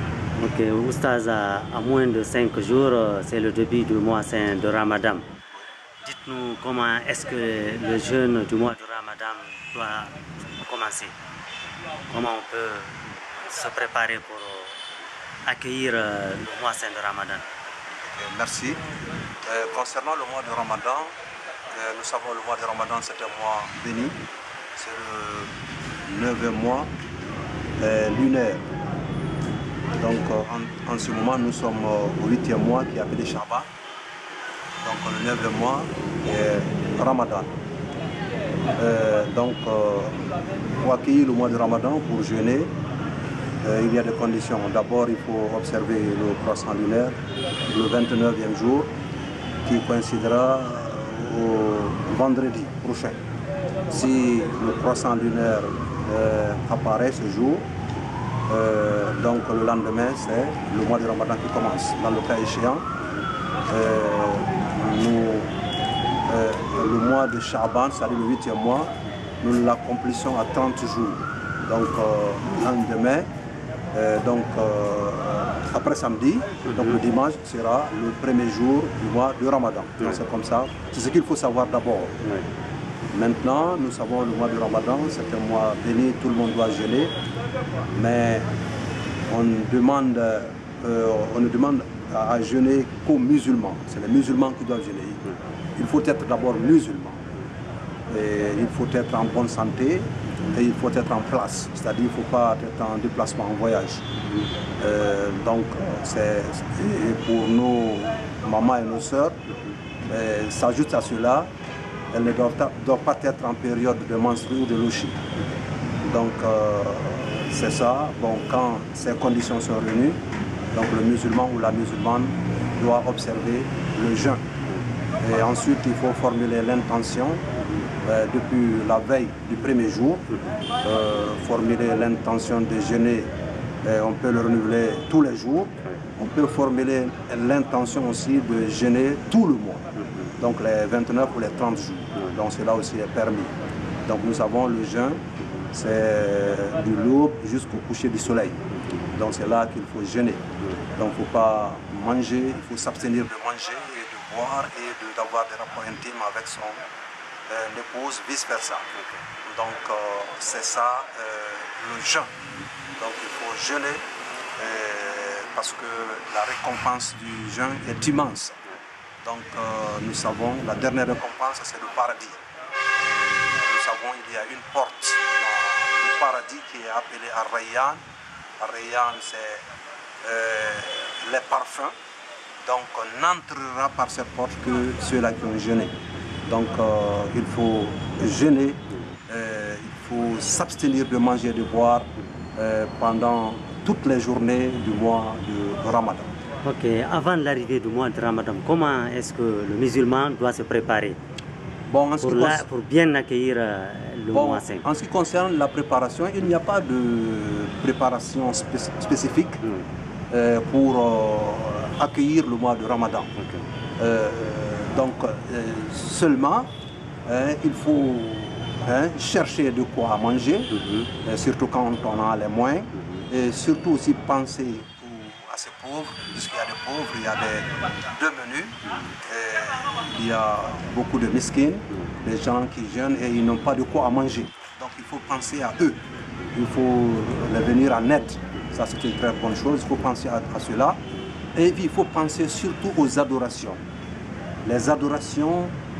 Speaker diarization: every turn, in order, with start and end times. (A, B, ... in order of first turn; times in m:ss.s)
0:00.4-0:05.3 A
0:06.0-0:11.2 A
0:12.1-0:14.8 A
0:15.5-0:17.5 A
0:18.0-0:18.8 B
0:19.5-0:21.1 B
0:21.7-0:24.2 B
0:24.8-0:25.5 B
0:26.1-0:26.9 B
0:27.8-0:28.7 B
0:30.0-0:33.7 B
0:34.8-0:37.5 B
0:38.8-0:40.2 B
0:40.8-0:42.7 B
0:43.6-0:47.2 B
0:47.7-0:48.9 B
0:49.6-0:53.2 B
0:53.9-0:57.6 B
0:58.5-1:02.9 B
1:03.7-1:05.6 B
1:06.3-1:13.3 B
1:13.9-1:22.2 B
1:16.6-1:17.0 A
1:23.1-1:27.1 B
1:27.9-1:28.5 B
1:29.3-1:37.2 B
1:38.1-1:44.0 B
1:44.8-1:49.4 B
1:50.1-1:51.5 B
1:52.1-1:55.2 B
1:56.0-2:00.2 B
2:00.7-2:04.4 B
2:05.2-2:07.4 B
2:08.0-2:13.3 B
2:13.8-2:19.9 B
2:20.4-2:23.5 B
2:24.0-2:30.4 B
2:31.0-2:36.8 B
2:37.5-2:42.3 B
2:43.0-2:44.0 B
2:44.6-2:48.6 B
2:49.2-2:52.4 B
2:53.0-2:58.0 B
2:58.6-2:59.6 B
3:00.2-3:02.0 B
3:02.6-3:05.9 B
3:06.5-3:16.3 B
3:16.6-3:21.2 A
3:21.9-3:22.7 B
3:22.2-3:24.9 A
3:24.3-3:29.6 B
3:30.3-3:33.3 B
3:33.4-3:33.6 A
3:34.0-3:36.7 B
3:37.3-3:40.7 B
3:40.7-3:41.1 A
3:41.2-3:56.0 B
3:56.5-4:01.0 B
4:01.6-4:03.8 B
4:04.6-4:05.7 B